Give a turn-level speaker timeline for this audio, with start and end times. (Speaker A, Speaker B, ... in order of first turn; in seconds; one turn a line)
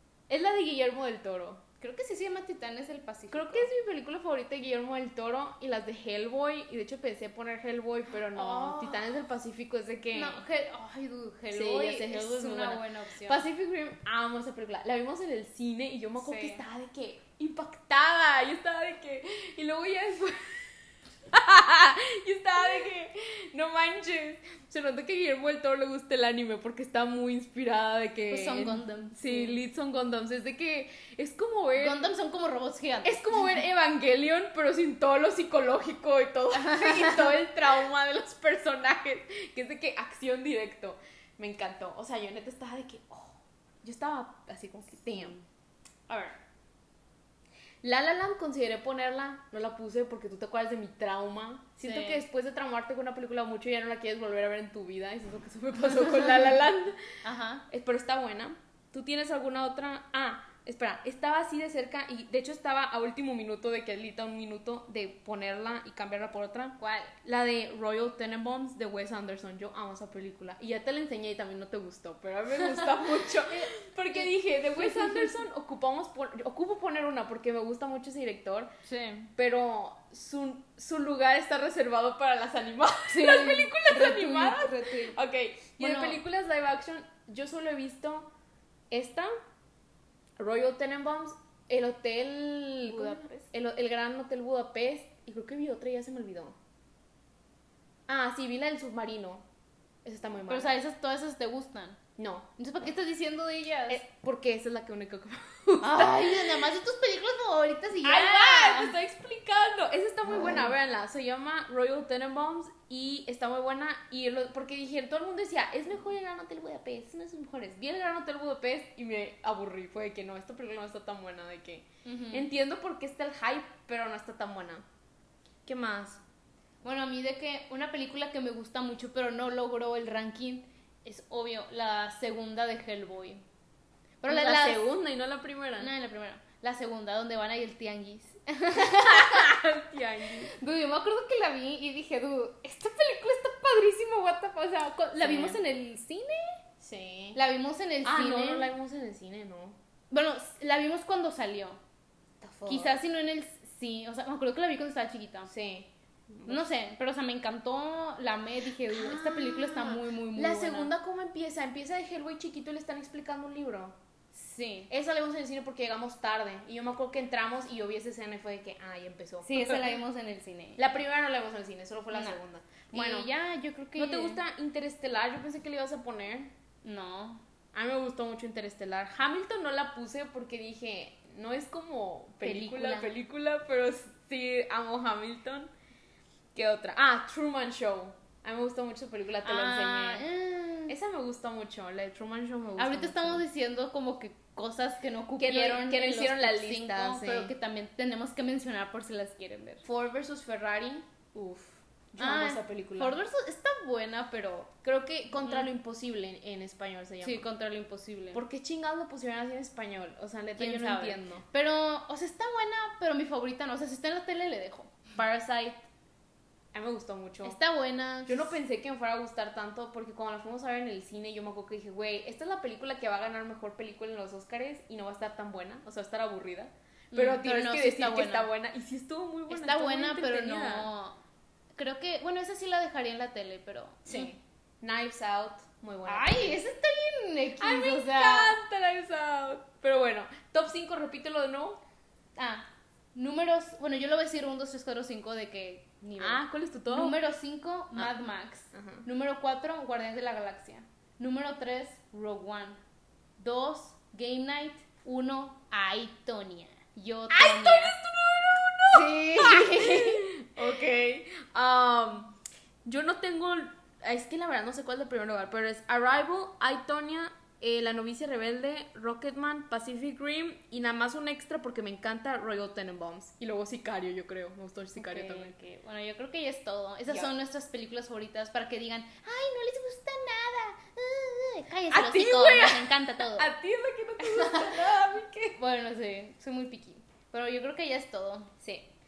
Speaker A: 0.3-1.6
Speaker B: 1.8-3.7
Speaker A: 3.3-10.4
Speaker B: 8.3-9.1
Speaker B: 10.1-13.4
Speaker A: 11.5-32.1
Speaker B: 16.2-16.6
Speaker B: 28.3-29.6
Speaker B: 31.8-33.4
Speaker A: 33.0-45.4
Speaker B: 36.5-37.4
Speaker A: 46.1-46.3
Speaker A: 47.8-57.0
Speaker B: 51.8-52.2
Speaker B: 57.2-57.6
Speaker A: 57.7-78.7
Speaker B: 66.8-67.1
Speaker B: 72.6-75.3
Speaker B: 78.9-79.3
Speaker A: 79.3-88.3
Speaker B: 83.1-85.2
Speaker B: 85.8-86.2
Speaker A: 88.9-89.3
Speaker A: 90.4-96.6
Speaker B: 92.9-93.2
Speaker A: 98.1-99.4
Speaker A: 100.0-100.8
Speaker B: 100.5-102.0
Speaker A: 102.2-102.5
Speaker B: 102.6-104.0
Speaker A: 103.9-106.6
Speaker B: 105.8-108.9
Speaker A: 108.0-124.8
Speaker B: 122.0-122.5
Speaker A: 125.7-126.2
Speaker B: 126.8-133.4
Speaker B: 134.2-134.9
Speaker A: 134.2-135.9
Speaker B: 135.8-139.5
Speaker A: 138.8-140.5
Speaker B: 140.5-146.6
Speaker A: 145.2-145.6
Speaker A: 146.8-147.4
Speaker B: 147.3-148.7
Speaker A: 148.0-149.8
Speaker B: 150.1-151.8
Speaker A: 152.4-153.0
Speaker B: 152.7-155.5
Speaker A: 155.5-156.6
Speaker B: 156.5-160.9
Speaker A: 158.9-163.9
Speaker B: 164.3-164.9
Speaker A: 164.9-169.9
Speaker B: 169.4-170.8
Speaker A: 170.8-173.3
Speaker B: 172.1-172.4
Speaker B: 172.9-174.4
Speaker A: 173.9-176.5
Speaker B: 176.8-177.4
Speaker A: 177.7-185.7
Speaker B: 182.4-183.1
Speaker A: 186.5-190.2
Speaker B: 189.4-190.9
Speaker A: 190.9-193.4
Speaker B: 192.8-199.8
Speaker A: 195.4-197.5
Speaker A: 199.8-203.2
Speaker B: 202.2-204.7
Speaker A: 204.8-207.4
Speaker B: 205.4-205.7
Speaker B: 207.2-208.4
Speaker A: 208.3-211.4
Speaker B: 210.6-214.9
Speaker A: 215.2-215.9
Speaker A: 216.7-217.6
Speaker B: 217.4-218.5
Speaker A: 218.2-230.9
Speaker B: 227.1-228.5
Speaker B: 229.5-231.2
Speaker B: 231.8-234.3
Speaker A: 234.1-236.6
Speaker B: 236.1-238.6
Speaker A: 237.6-241.8
Speaker B: 242.4-252.8
Speaker A: 246.2-247.2
Speaker A: 248.7-249.1
Speaker B: 253.4-258.0
Speaker A: 257.3-262.3
Speaker B: 258.9-260.3
Speaker A: 262.8-275.5
Speaker B: 275.0-283.5
Speaker A: 281.9-285.6
Speaker B: 284.2-284.8
Speaker B: 285.6-288.5
Speaker A: 288.6-288.9